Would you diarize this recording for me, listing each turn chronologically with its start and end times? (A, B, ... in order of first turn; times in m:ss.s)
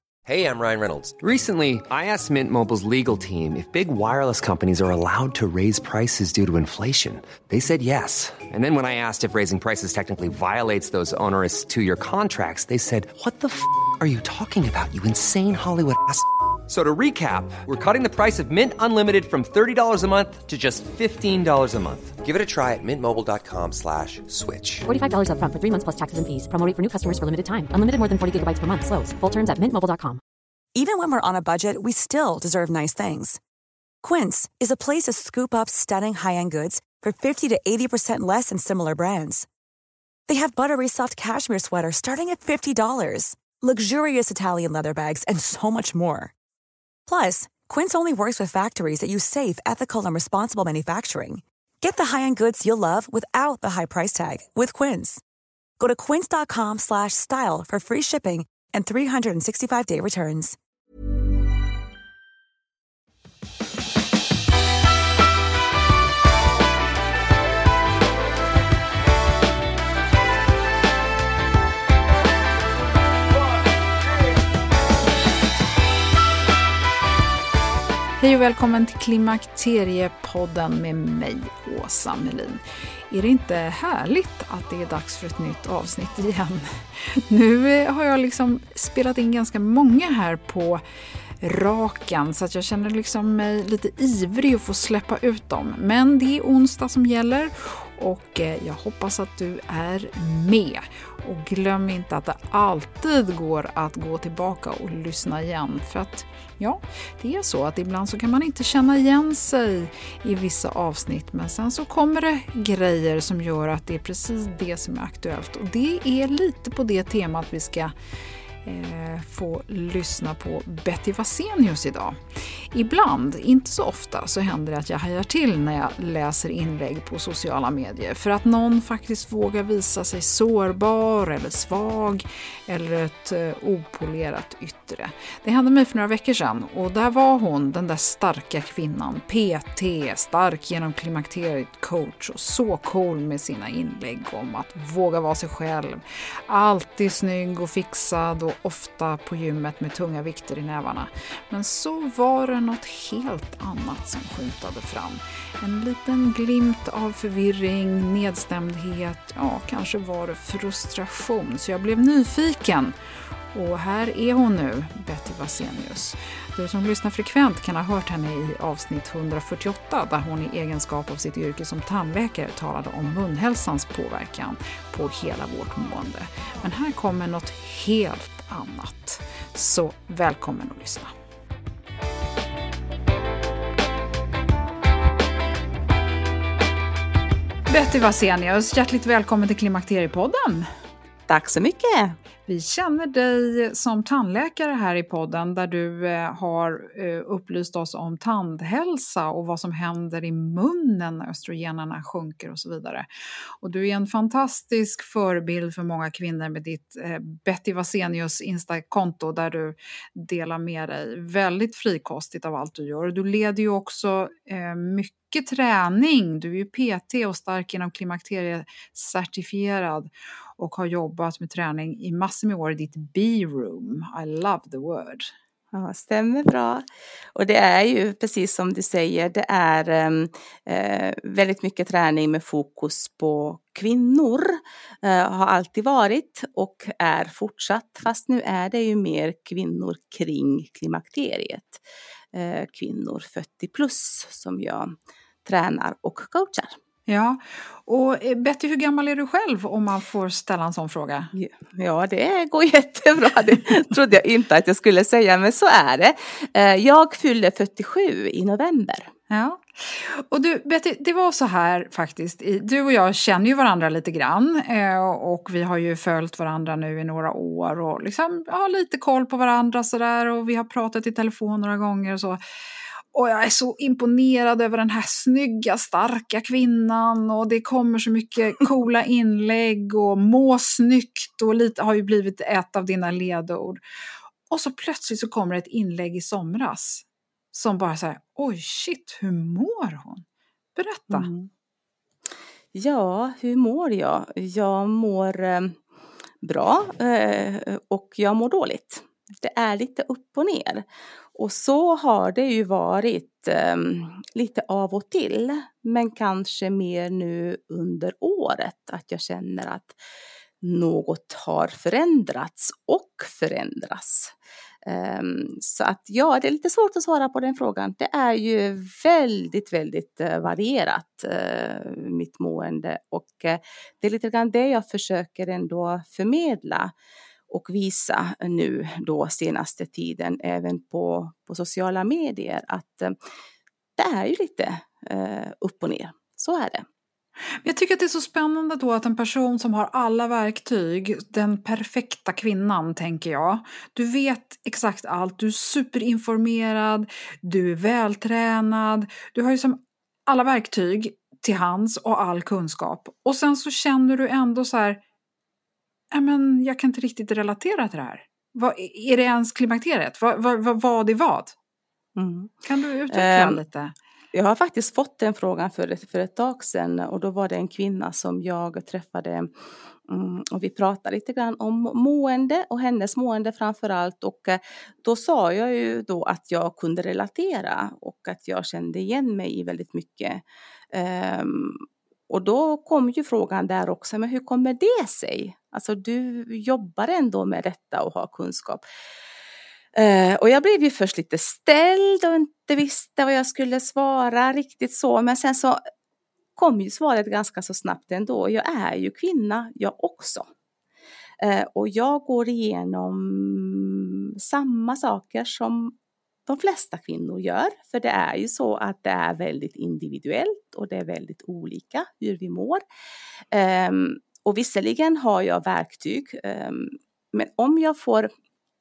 0:00.2-0:24.9 A
0:24.9-0:30.2 B
0:30.7-0:33.4 C
0:34.0-0:39.4 C
0:40.3-0:46.3 C
0:47.1-0:55.2 C
0:55.8-1:00.6 C
1:18.2-1:30.8 D
1:31.4-1:57.9 D
1:58.6-2:02.2 D
2:02.7-2:43.0 D
2:43.5-3:01.1 D
3:07.7-3:10.7 D
3:11.3-3:12.2 E
3:12.5-3:23.1 D
3:23.6-3:45.3 D
3:45.7-4:01.8 E
4:02.3-4:04.9 E
4:05.4-4:06.8 E
4:07.1-4:11.3 D
4:11.3-4:19.1 E
4:19.3-4:32.4 D
4:33.1-4:43.8 D
4:44.5-4:50.2 D
4:50.8-4:51.3 D
4:51.1-4:51.5 E
4:52.7-4:55.8 E
4:56.4-5:10.0 E
5:10.6-5:26.9 E
5:27.5-5:33.1 E
5:34.0-5:36.8 E
5:37.6-5:55.0 D
5:56.1-6:01.5 D
6:02.2-6:02.6 E
6:02.6-6:03.9 D
6:03.1-6:03.6 E
6:04.3-6:09.5 E
6:10.1-6:28.8 E
6:29.9-6:35.8 E
6:36.6-6:40.5 E
6:41.4-6:45.9 E
6:46.4-6:52.8 E
6:53.5-6:58.3 E